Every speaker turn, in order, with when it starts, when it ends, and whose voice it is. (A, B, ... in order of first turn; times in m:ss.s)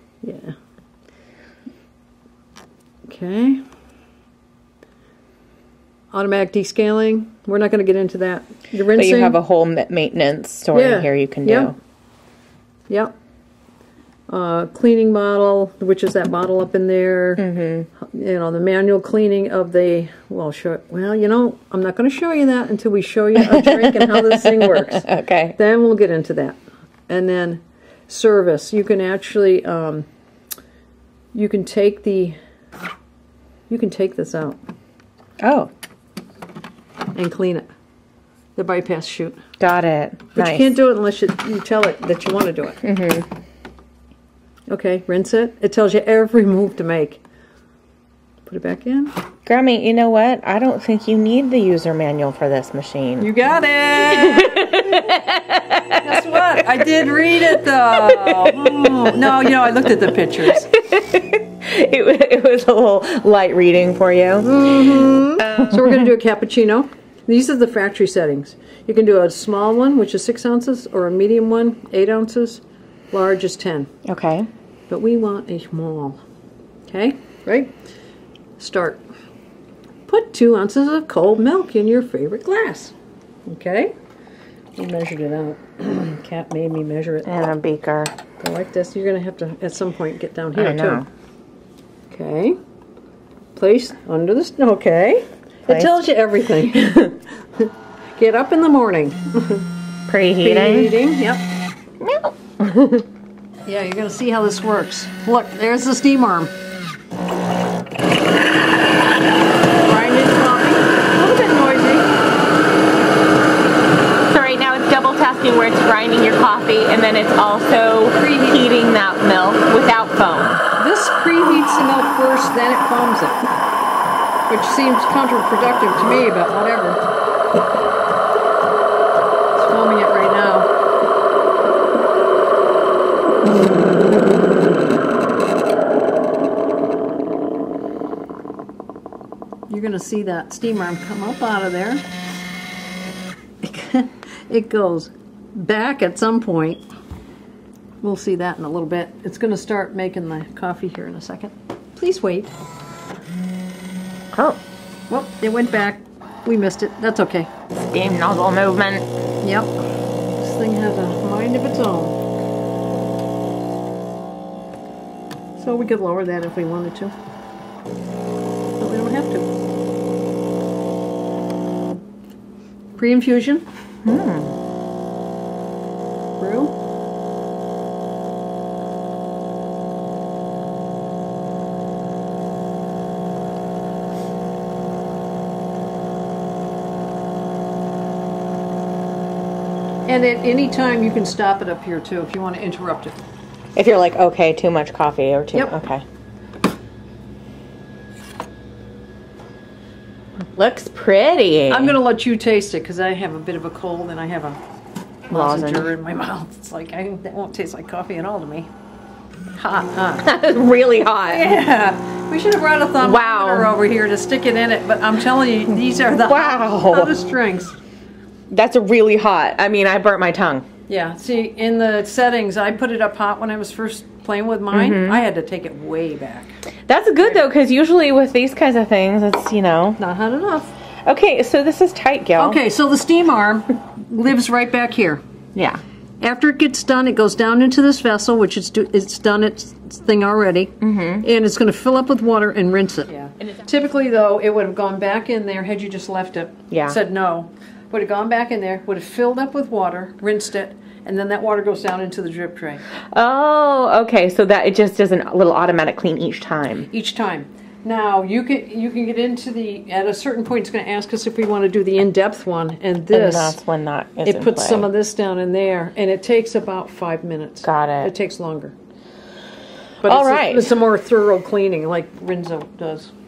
0:00.2-0:00.5 A
0:03.1-0:03.6 A
0:06.1-0:09.4 A
0:08.8-0:11.7 B
0:10.7-0:11.7 A
0:14.3-0:17.4 A
0:17.4-0:17.9 B
0:18.0-0:30.1 A
0:23.4-0:25.5 B
0:31.3-0:32.4 A
0:33.7-0:34.6 A
0:35.4-0:35.7 B
0:37.1-0:37.7 A
0:38.6-0:39.4 A
0:39.6-0:40.7 B
0:40.3-0:42.8 A
0:42.8-0:43.3 B
0:44.7-0:47.2 A
0:48.4-0:49.1 A
0:49.4-0:53.3 B
0:53.2-0:55.1 A
0:54.1-0:56.2 B
0:56.0-1:00.7 A
0:57.9-0:59.9 B
1:00.4-1:06.1 B
1:04.4-1:13.9 A
1:14.0-1:14.5 B
1:14.9-1:16.2 A
1:16.9-1:17.7 A
1:18.6-1:19.0 A
1:20.1-1:22.9 A
1:23.5-1:23.9 A
1:24.8-1:27.3 A
1:27.2-1:28.1 B
1:28.4-1:31.0 A
1:30.5-1:31.0 B
1:32.1-1:32.6 A
1:33.5-1:39.6 A
1:40.1-1:40.9 B
1:40.4-1:41.4 A
1:42.0-1:43.0 B
1:43.6-1:46.5 A
1:49.8-1:52.1 A
1:54.3-2:00.6 B
1:58.1-1:58.7 A
2:00.8-2:03.5 A
2:04.5-2:07.0 A
2:09.6-2:10.7 A
2:19.7-2:22.0 A
2:23.6-2:26.8 A
2:28.0-2:32.5 A
2:34.3-2:34.6 B
2:35.1-2:37.5 A
2:37.8-2:39.1 B
2:39.4-2:42.2 A
2:45.6-2:47.1 A
2:48.8-2:49.5 A
2:53.0-2:53.6 A
2:54.0-2:54.5 B
2:56.4-2:56.7 A
3:10.0-3:13.2 A
3:13.7-3:16.0 B
3:20.5-3:22.0 B
3:21.7-3:24.6 A
3:25.3-3:25.9 B
3:25.3-3:28.7 A
3:29.6-3:30.3 A
3:30.2-3:31.5 B
3:31.3-3:37.8 A
3:33.0-3:33.7 B
3:36.1-3:37.2 B
3:38.5-3:40.6 B
3:40.9-3:46.6 A
3:44.7-3:45.2 B
3:46.9-3:50.0 B
3:50.0-3:50.7 A
3:51.0-3:52.6 B
3:52.4-3:55.2 A
3:55.5-3:55.8 B
3:56.2-4:12.8 A
4:00.8-4:01.2 B
4:06.7-4:07.0 B
4:13.1-4:16.9 B
4:16.9-4:23.6 A
4:23.1-4:24.9 B
4:24.2-4:28.7 A
4:27.6-4:28.1 B
4:30.0-4:33.1 A
4:30.0-4:30.8 B